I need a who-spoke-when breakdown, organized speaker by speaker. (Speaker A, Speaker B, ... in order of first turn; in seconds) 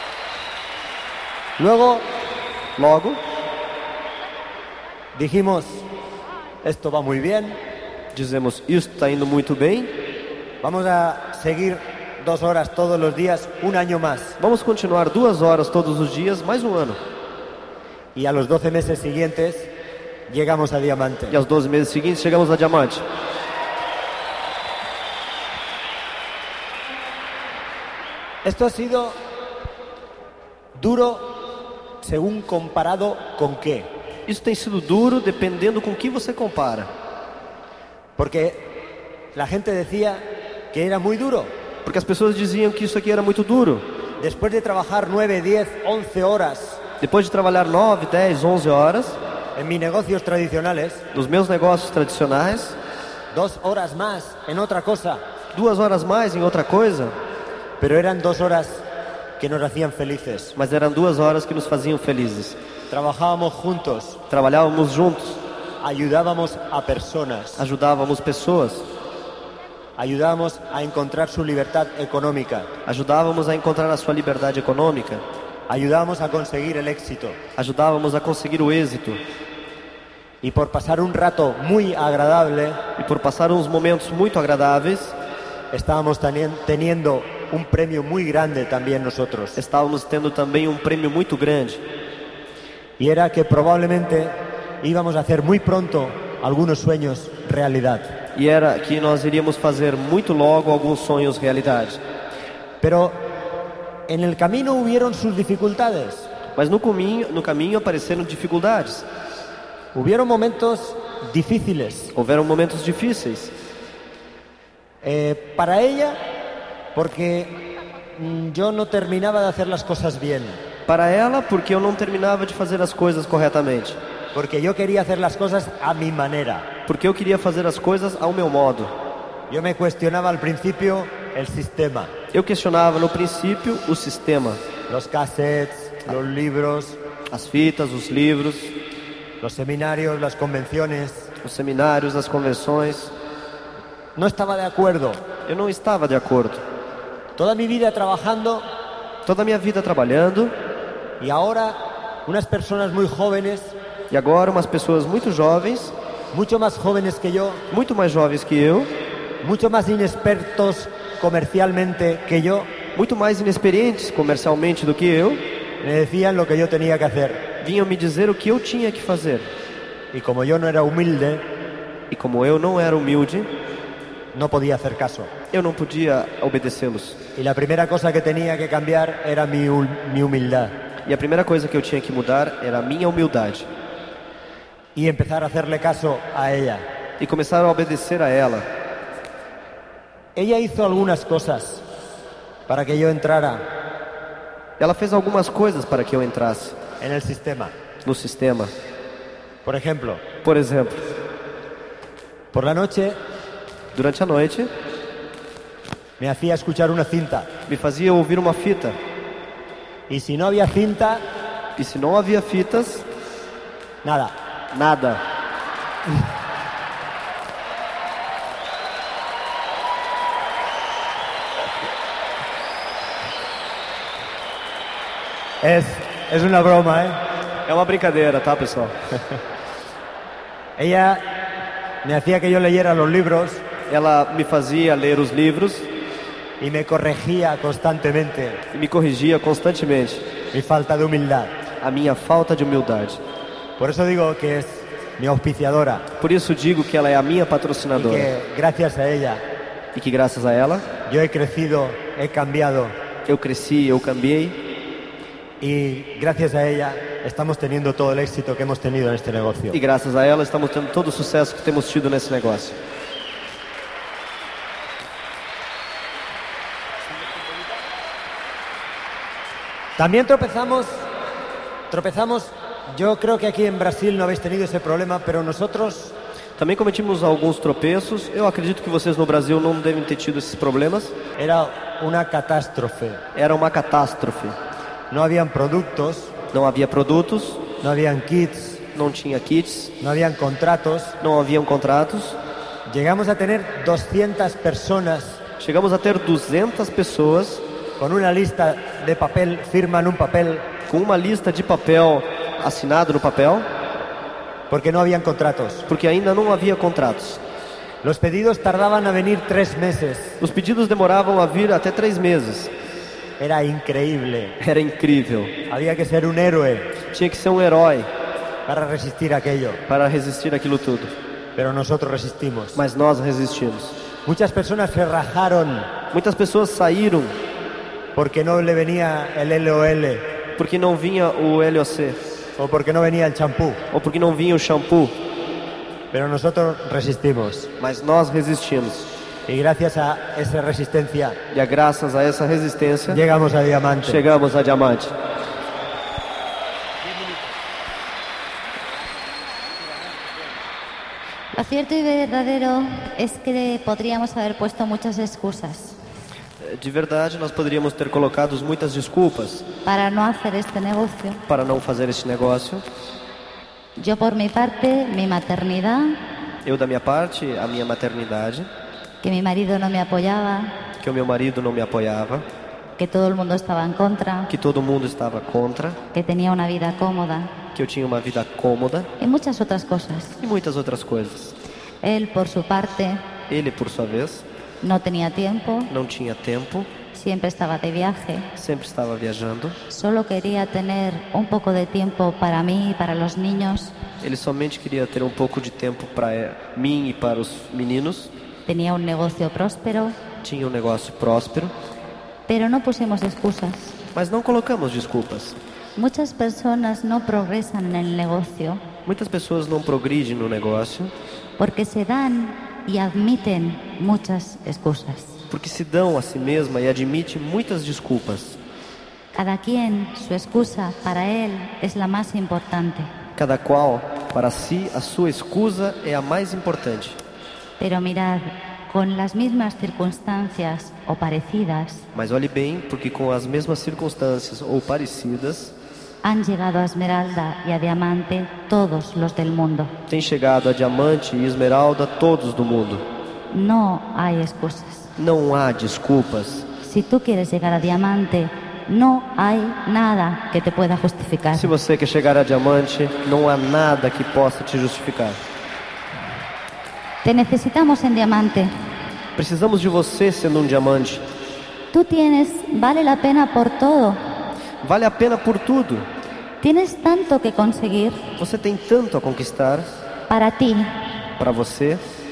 Speaker A: 1.6-2.1, 5.1-5.8, 6.6-7.6, 10.6-14.4, 18.1-19.7, 20.3-21.4, 28.4-29.2, 30.7-31.4, 32.0-33.9, 38.2-38.6, 39.3-41.5, 44.2-46.8, 49.5-51.0, 53.3-55.2, 57.8-58.8, 59.4-60.5, 62.9-64.2, 65.8-67.6, 70.0-72.7, 75.7-77.4, 80.4-82.8, 85.7-89.6, 93.0-98.1, 102.8-103.2, 104.1-106.3, 109.9-112.1, 115.0-116.2, 116.9-117.5, 118.2-120.6, 124.3-126.7, 129.5-132.1, 134.9-137.0, 139.4-141.3, 144.2-145.2, 147.4-148.7, 151.2-153.7, 156.3-157.6, 159.4-162.7, 165.8-167.4, 170.1-171.4, 174.3-175.3, 177.3-180.7, 184.9-186.8, 190.3-191.8, 192.7-193.6, 197.0-197.7, 199.6-200.2, 202.5-203.2, 206.2-207.5, 210.1-211.2, 214.0-214.3, 225.6-227.2, 230.8-231.2, 232.0-233.6, 236.6-238.6, 240.5-241.5, 243.8-246.1, 247.9-249.4, 251.1-252.9, 255.6-259.8, 270.0-271.1, 271.9-276.1, 281.4-283.2, 285.1-286.3, 287.8-288.8, 290.0-291.2, 292.9-295.4, 298.0-300.6, 304.7-305.9, 308.0-310.4, 313.4-314.5, 315.7-316.9, 318.6-319.8, 321.6-322.8, 324.2-325.9, 328.1-330.3, 332.6-333.8, 336.1-337.7, 339.5-341.4, 343.1-344.2
Speaker B: 2.8-3.2, 8.1-9.9, 14.4-17.0, 21.3-23.0, 34.2-36.9, 41.8-43.8, 47.0-49.2, 51.1-52.8, 55.5-57.1, 60.5-62.6, 64.3-65.4, 67.6-68.9, 72.8-75.2, 77.5-79.2, 83.0-85.2, 89.5-91.8, 98.3-102.0, 106.5-109.1, 112.1-113.5, 120.9-124.0, 126.9-128.9, 132.3-134.6, 137.3-138.7, 141.4-143.1, 145.4-146.6, 149.2-150.5, 154.1-155.9, 157.7-158.9, 162.9-165.4, 167.6-169.5, 172.1-173.5, 175.5-177.2, 181.1-183.7, 187.2-188.7, 194.8-196.8, 198.0-198.7, 200.4-201.1, 203.9-204.7, 207.7-209.0, 211.8-213.1, 214.7-215.2, 227.7-228.9, 233.9-235.9, 238.7-240.2, 241.8-243.2, 246.2-248.3, 249.9-250.8, 253.3-254.6, 259.7-262.8, 276.6-281.1, 283.3-284.6, 286.5-287.6, 288.9-289.9, 291.2-292.4, 295.6-297.6, 300.9-303.7, 305.9-307.4, 310.4-312.7, 314.6-315.5, 317.1-318.1, 319.9-321.1, 322.7-323.9, 326.1-327.4, 330.5-332.2, 333.9-335.1, 337.8-339.1, 341.5-343.2, 344.0-345.1, 356.6-359.6, 361.5-362.8, 366.6-368.7, 371.0-372.4, 374.5-376.0, 377.7-379.1, 380.4-381.6, 383.5-384.4, 385.9-386.9, 388.6-389.8, 394.2-398.3, 400.4-401.7, 404.1-405.6, 409.1-411.1, 415.5-418.6, 423.4-427.2, 432.1-435.7, 440.1-443.0, 445.2-446.7, 451.5-455.4, 459.4-461.2, 464.8-466.1, 468.4-469.9, 471.4-472.0
Speaker C: 351.5-356.0, 359.8-361.4, 364.0-366.1, 369.2-370.7, 373.0-374.5, 376.1-377.6, 379.2-380.4, 382.0-383.2, 384.8-385.9, 387.1-388.5, 389.9-393.9, 398.6-400.2, 402.5-404.0, 405.9-408.8, 411.6-415.4, 419.3-423.1, 427.8-432.0, 436.2-439.9, 443.5-445.1, 446.8-451.7, 457.2-458.7, 461.9-464.2, 466.6-468.2, 470.3-470.9